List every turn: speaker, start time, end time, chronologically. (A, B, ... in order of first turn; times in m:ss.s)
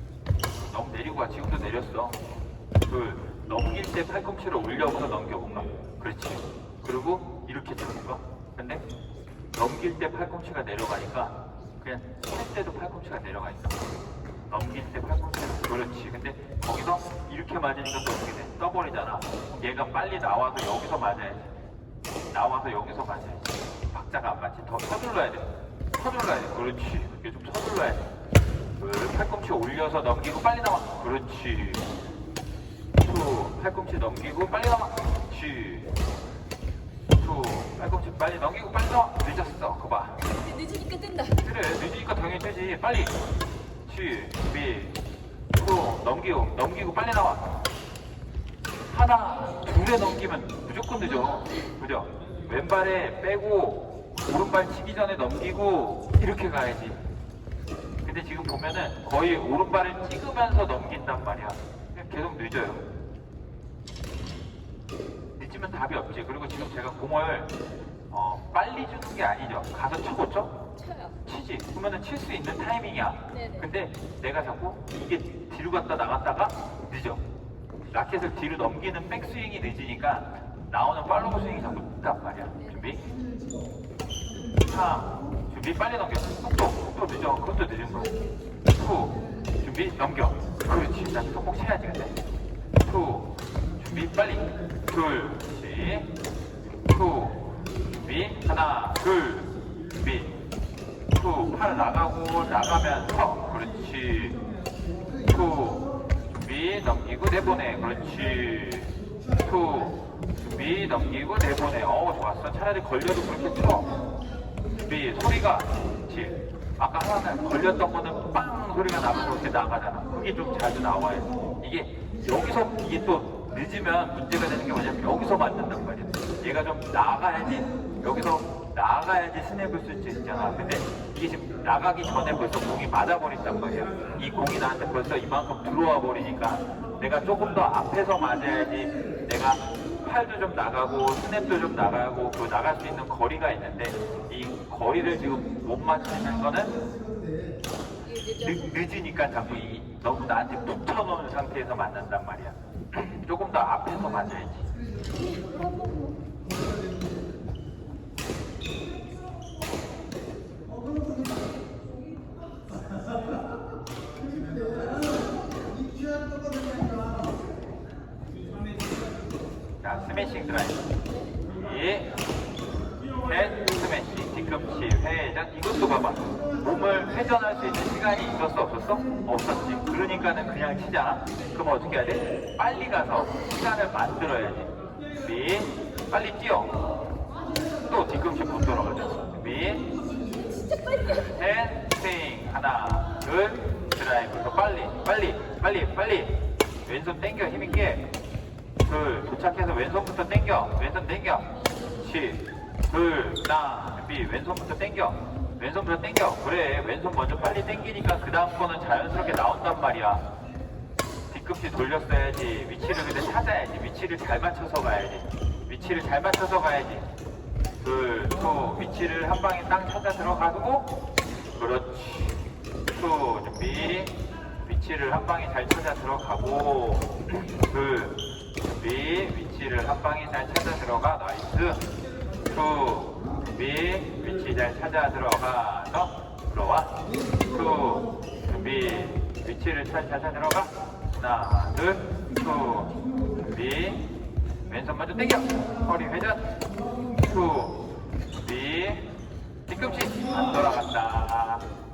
0:00.6-0:02.2 A
0:02.9-0:08.8 A
0:09.5-0:13.8 A
0:14.5-0:21.5 A
0:22.3-0:28.1 A
0:28.8-0:31.9 A
0:33.0-0:35.9 A
0:37.1-0:40.2 A
0:40.3-0:41.4 B
0:41.4-0:43.2 A
0:43.9-0:45.0 A
0:45.6-0:47.6 A
0:48.9-0:57.0 A
0:58.0-1:02.8 A
1:05.4-1:07.5 A
1:08.1-1:10.5 A
1:10.8-1:11.2 B
1:11.2-1:17.2 A
1:13.3-1:13.7 B
1:17.9-1:23.0 A
1:22.6-1:23.0 B
1:24.7-1:28.2 A
1:28.7-1:32.2 A
1:32.8-1:36.1 A
1:36.8-1:40.4 A
1:41.1-1:44.4 A
1:45.3-1:54.0 A
1:54.8-2:26.8 A
2:28.0-2:28.9 B
2:28.4-2:34.7 A
2:35.1-2:36.2 B
2:49.8-2:50.9 A
2:51.1-2:51.4 B
2:51.5-2:52.1 A
2:53.2-3:06.8 A
3:07.9-3:09.9 A
3:10.2-3:11.4 B
3:11.1-3:18.1 A
3:18.8-3:30.3 A
3:31.3-3:37.1 A
3:37.8-3:40.9 A
3:41.6-3:51.8 A
3:52.5-4:04.0 A
4:04.7-4:06.5 A
4:07.2-4:07.8 A
4:08.4-4:09.1 A
4:09.7-4:11.6 A